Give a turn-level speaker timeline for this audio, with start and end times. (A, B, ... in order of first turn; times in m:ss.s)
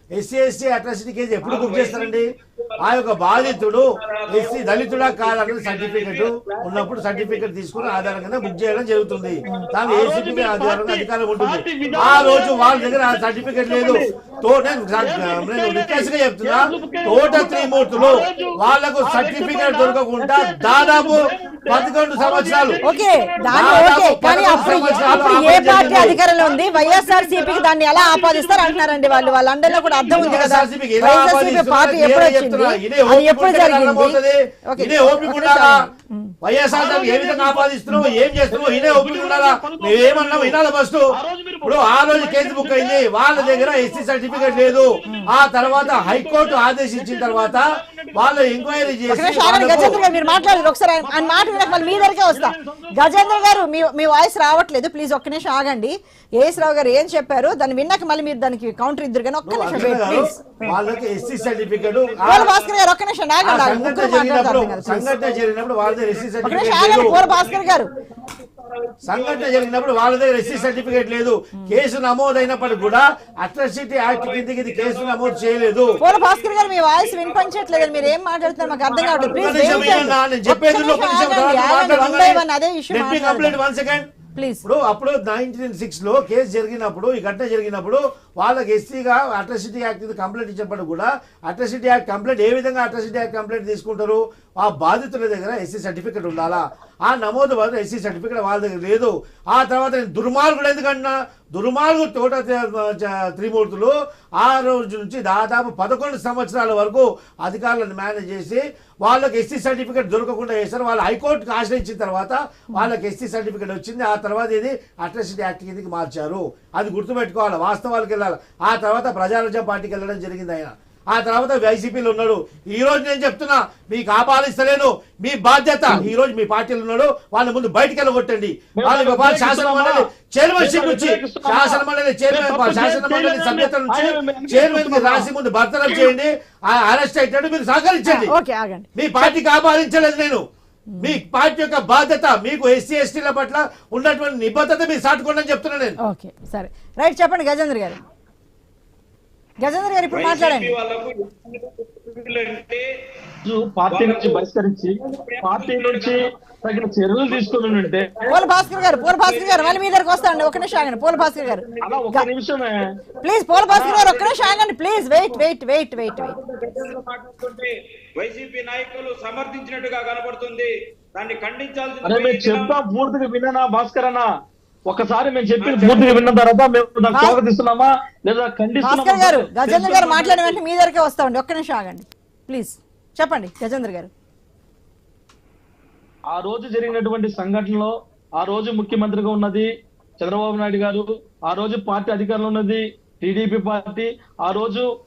0:00.1-0:02.3 A
0:01.4-0:09.9 B
0:02.8-0:22.8 A
0:09.4-0:14.0 C
0:11.8-0:12.8 B
0:15.0-0:23.9 C
0:17.3-0:18.5 B
0:22.8-0:36.3 D
0:23.5-0:26.2 A
0:24.5-0:30.4 C
0:30.1-0:35.7 A
0:36.4-0:41.1 A
0:36.7-0:37.7 C
0:38.5-0:40.6 C
0:41.1-0:53.6 C
0:41.6-0:47.6 A
0:48.1-0:50.0 A
0:49.1-1:00.4 D
0:59.4-1:02.5 A
1:00.6-1:02.8 B
1:02.2-1:05.1 D
1:03.4-1:07.2 A
1:05.0-1:11.2 B
1:06.4-1:07.9 D
1:09.0-1:16.0 A
1:12.4-1:13.2 B
1:14.1-1:20.1 B
1:16.0-1:23.6 D
1:19.2-1:24.1 A
1:24.3-1:24.6 D
1:24.6-2:18.3 A
2:08.8-2:10.0 C
2:10.6-2:15.3 C
2:18.0-2:19.3 D
2:19.0-2:20.4 A
2:21.0-2:26.0 A
2:26.0-2:28.0 D
2:29.6-2:30.7 D
2:30.1-2:32.8 B
2:33.4-2:38.3 C
2:33.9-2:34.4 B
2:35.1-2:36.2 B
2:37.2-2:42.0 B
2:38.3-2:42.2 D
2:41.8-2:42.8 C
2:43.2-2:46.3 D
2:43.5-2:45.4 B
2:43.7-2:44.0 C
2:46.1-2:52.8 B
2:52.0-2:54.2 C
2:54.9-3:00.6 C
2:55.6-2:56.2 B
2:57.1-2:57.4 D
2:58.8-3:04.1 D
3:06.3-3:14.9 C